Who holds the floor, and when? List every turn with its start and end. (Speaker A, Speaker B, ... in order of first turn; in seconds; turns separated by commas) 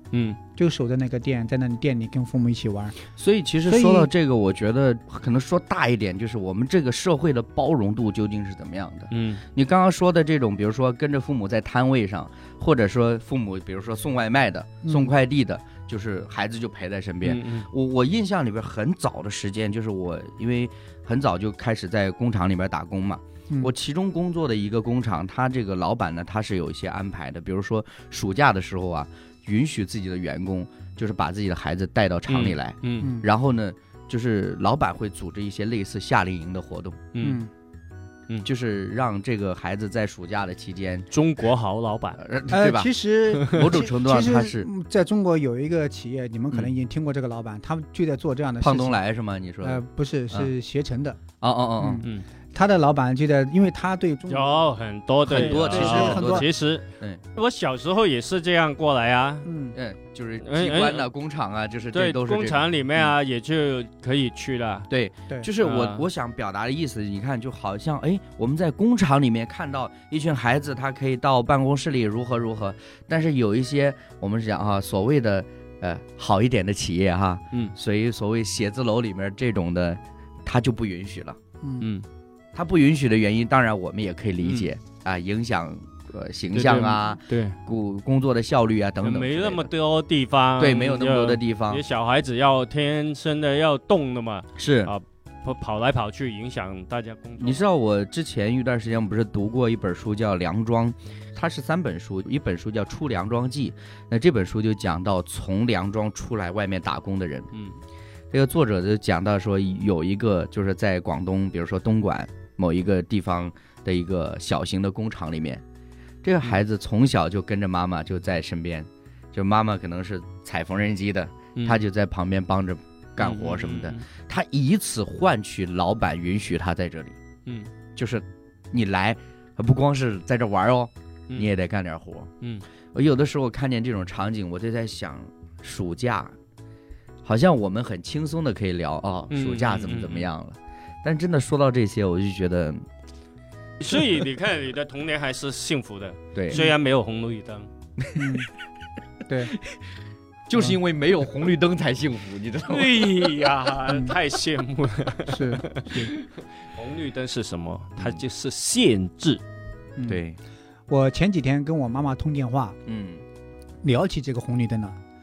Speaker A: 0.1-0.4, Speaker B: 0.6-3.0, Speaker C: 3.2-37.0, Speaker B: 3.6-4.1, Speaker A: 9.1-9.4, Speaker B: 14.8-15.1, Speaker A: 17.2-17.7, Speaker A: 32.3-33.1, Speaker B: 33.0-33.2, Speaker A: 37.1-37.4, Speaker B: 37.2-37.5, Speaker C: 38.4-41.1, Speaker A: 41.1-42.2, Speaker C: 42.2-42.9, Speaker B: 42.5-49.0, Speaker A: 43.4-43.7, Speaker C: 43.4-44.7, Speaker C: 48.6-50.5, Speaker B: 49.6-51.2, Speaker C: 51.4-52.0, Speaker B: 51.8-54.6, Speaker A: 54.3-59.5, Speaker C: 55.2-57.2, Speaker B: 55.3-56.5, Speaker B: 59.4-59.8, Speaker C: 59.7-63.1, Speaker A: 60.4-61.1, Speaker A: 61.9-64.9, Speaker C: 64.9-81.4, Speaker A: 65.6-66.0, Speaker B: 81.6-81.9, Speaker A: 81.8-82.0, Speaker C: 82.5-89.7, Speaker A: 84.4-84.7, Speaker A: 86.5-87.6, Speaker A: 89.0-97.6, Speaker C: 90.6-91.8, Speaker C: 94.5-94.9, Speaker C: 97.4-107.5, Speaker A: 107.5-107.8, Speaker C: 108.3-115.6, Speaker C: 116.2-127.2, Speaker A: 121.5-121.8, Speaker A: 123.2-124.0, Speaker A: 127.5-127.7, Speaker C: 128.0-132.3, Speaker C: 132.9-136.3, Speaker C: 137.2-142.8, Speaker A: 139.3-140.3, Speaker A: 143.8-147.7, Speaker C: 146.3-146.6, Speaker C: 148.0-148.3, Speaker B: 148.1-148.5, Speaker B: 149.3-149.6, Speaker C: 149.5-149.8, Speaker C: 150.5-153.1, Speaker A: 152.7-159.4, Speaker B: 153.9-154.1, Speaker B: 155.3-156.1, Speaker C: 158.0-158.2, Speaker C: 160.1-160.4, Speaker B: 160.9-162.8, Speaker C: 162.8-163.2, Speaker B: 163.8-165.0